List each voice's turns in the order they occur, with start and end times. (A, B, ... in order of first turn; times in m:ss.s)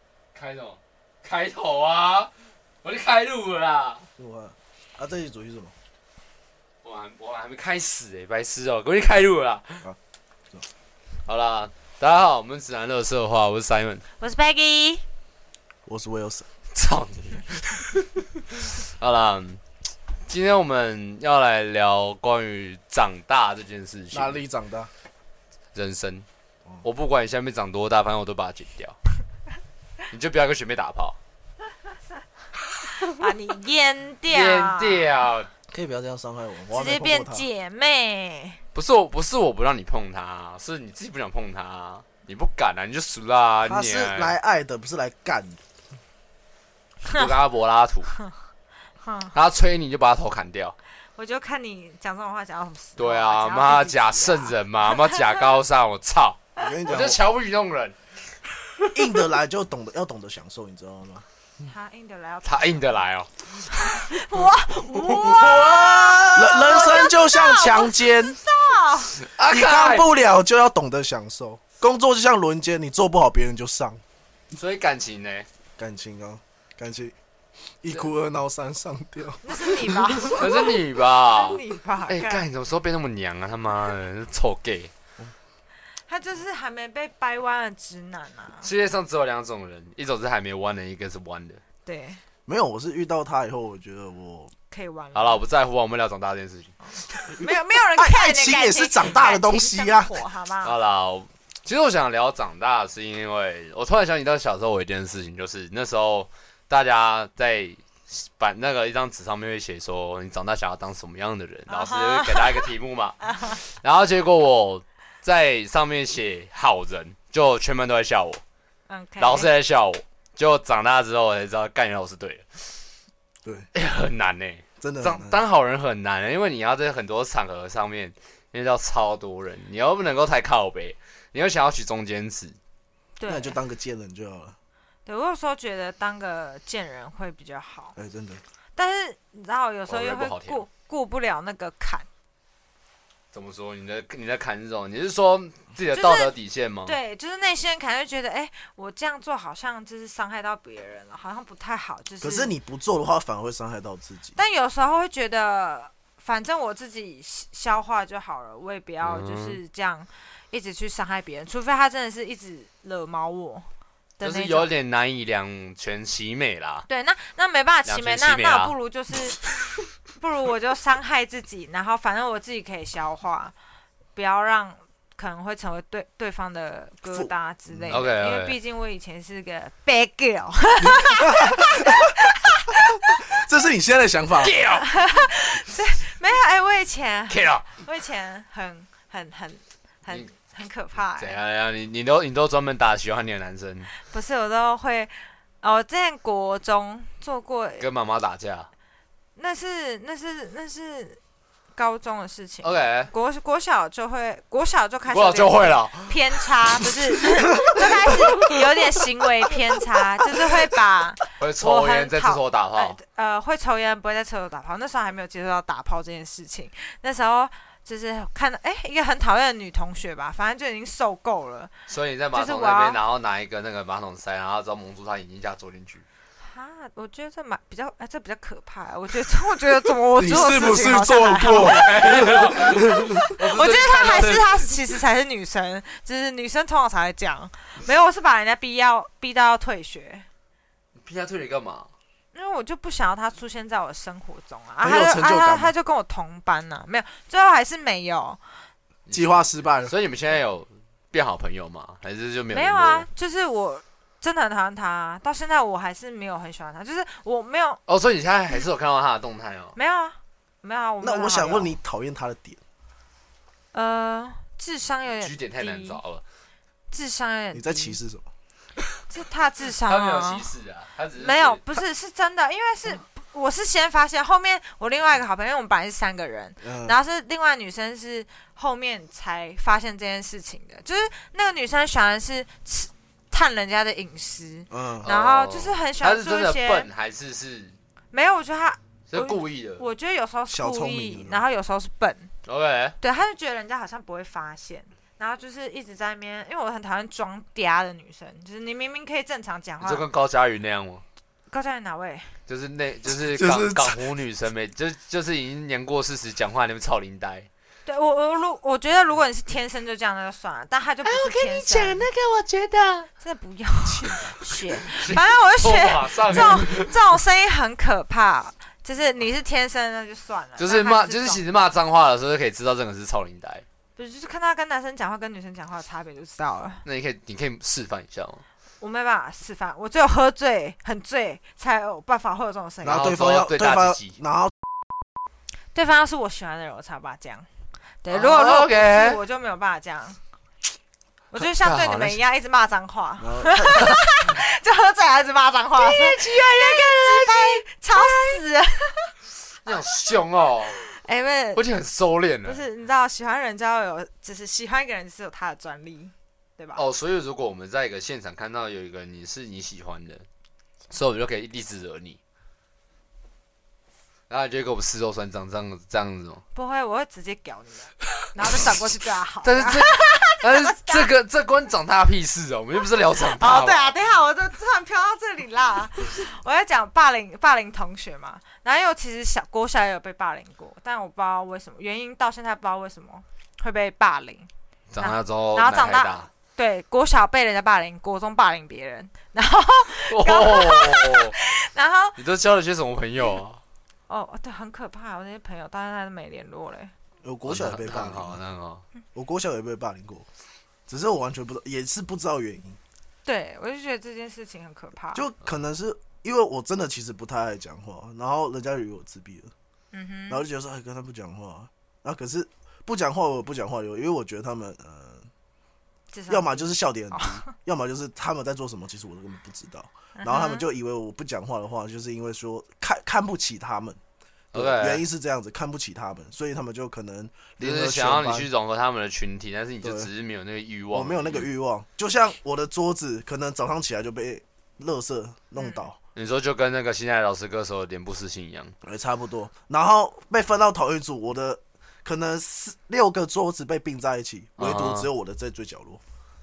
0:00.4-0:02.3 A
0:02.8-0:04.1 A
0:04.2-0:05.7 B
0:06.8-0:09.8 A
0:11.3-0:14.0 A
0:14.2-0:15.0 C
0:15.9-0:16.5 B
0:16.7-0:19.6 A
0:20.3-0:24.4 A
0:24.1-0:24.9 B
0:25.7-0:26.3 A
0:26.8-0:29.0 A
0:30.1-0:31.2 A
0:32.9-0:35.2 C
0:34.3-0:35.5 A
0:35.7-0:37.4 B
0:36.7-0:38.6 C
0:38.8-0:44.4 A
0:43.6-0:45.6 B
0:47.0-0:48.2 A
0:49.0-0:49.4 C
0:49.3-0:50.8 A
0:51.2-0:55.4 C
0:53.0-0:58.0 A
0:56.6-0:57.2 B
0:58.9-1:01.2 B
1:01.6-1:09.2 C
1:02.4-1:03.3 A
1:05.0-1:06.5 A
1:05.5-1:08.4 B
1:09.2-1:10.1 A
1:09.4-1:14.0 B
1:14.5-1:15.5 A
1:15.8-1:17.2 B
1:17.8-1:20.5 B
1:19.4-1:22.5 C
1:20.4-1:24.9 A
1:26.1-1:28.7 C
1:28.6-1:31.6 A
1:31.9-1:32.2 C
1:32.5-1:34.5 B
1:34.7-1:35.4 C
1:35.1-1:36.8 A
1:36.9-1:40.8 C
1:37.1-1:40.2 B
1:40.6-1:58.4 A
1:51.7-1:53.6 C
1:58.9-1:59.5 C
1:59.2-2:02.8 A
2:03.7-2:12.6 A
2:04.8-2:05.4 B
2:13.2-2:13.6 C
2:13.3-2:14.6 B
2:15.1-2:18.0 C
2:18.0-2:18.4 B
2:18.8-2:22.1 C
2:19.9-2:20.6 A
2:23.3-2:27.0 A
2:25.9-2:26.3 C
2:26.8-2:32.5 C
2:32.2-2:34.4 B
2:34.4-2:43.7 C
2:39.0-2:39.6 A
2:44.2-2:44.7 C
2:44.2-2:46.9 A
2:46.9-2:49.4 C
2:47.9-2:48.8 A
2:50.2-2:53.5 C
2:54.2-3:03.2 C
2:57.1-2:58.0 B
2:57.9-2:58.6 A
3:00.9-3:02.1 B
3:02.9-3:04.6 B
3:04.4-3:04.9 A
3:04.7-3:11.4 C
3:07.3-3:07.7 A
3:11.2-3:13.9 A
3:14.0-3:17.9 C
3:17.8-3:18.7 A
3:19.4-3:21.2 C
3:21.8-3:43.0 C
3:22.6-3:23.1 A
3:25.1-3:27.0 A
3:27.8-3:28.6 A
3:31.4-3:33.0 A
3:41.9-3:46.0 A
3:46.4-4:00.3 C
3:50.2-3:53.3 B
3:51.5-3:54.7 A
4:01.0-4:01.9 A
4:02.3-4:08.4 C
4:04.8-4:05.7 B
4:09.1-4:13.1 A
4:09.1-4:09.9 B
4:12.5-4:17.8 C
4:17.9-4:19.8 A
4:19.8-4:21.8 C
4:21.0-4:22.6 B
4:23.7-4:26.0 C
4:25.2-4:26.2 A
4:26.9-4:28.0 C
4:27.5-4:28.2 B
4:29.1-4:30.5 C
4:29.8-4:31.6 A
4:31.2-4:46.9 C
4:36.6-4:37.0 B
4:44.7-4:45.1 B
4:45.0-4:47.8 A
4:48.1-4:52.3 C
4:49.1-4:49.8 A
4:50.5-4:51.4 B
4:52.4-4:53.0 A
4:53.0-5:00.1 C
4:59.8-5:01.0 A
5:01.5-5:02.4 C
5:02.5-5:07.5 A
5:03.1-5:04.0 B
5:07.9-5:12.1 C
5:11.0-5:13.1 A
5:13.2-5:21.7 C
5:14.0-5:17.0 A
5:20.6-5:23.6 A
5:24.0-5:26.8 C
5:26.8-5:28.4 A
5:28.8-5:33.2 C
5:32.8-5:34.6 B
5:32.8-5:34.2 A
5:35.7-5:37.5 C
5:38.0-5:40.2 C
5:38.1-5:39.2 A
5:41.3-5:49.2 C
5:41.4-5:42.2 A
5:43.2-5:44.0 B
5:45.8-5:48.4 A
5:49.6-5:50.8 A
5:50.8-5:51.6 C
5:51.6-5:52.6 A
5:52.4-5:56.8 C
5:56.8-6:00.3 A
6:00.9-6:02.2 A
6:04.3-6:06.4 A
6:06.6-6:11.1 C
6:09.4-6:14.0 A
6:13.3-6:32.2 C
6:24.9-6:26.3 A
6:30.1-6:31.3 A
6:32.2-6:33.6 A
6:34.1-6:36.9 C
6:37.2-6:38.4 B
6:37.5-6:38.8 A
6:39.2-6:40.3 B
6:40.9-6:42.8 B
6:43.2-6:45.3 C
6:45.1-6:49.5 B
6:49.9-6:50.4 C
6:50.3-6:55.3 B
6:56.1-6:57.5 C
6:56.3-7:04.0 B
7:00.2-7:00.7 C
7:04.5-7:05.0 A
7:04.5-7:08.5 B
7:07.6-7:11.5 A
7:09.8-7:10.1 B
7:10.9-7:16.0 B
7:15.6-7:15.8 C
7:16.2-7:18.7 A
7:18.8-7:26.0 B
7:24.6-7:25.1 A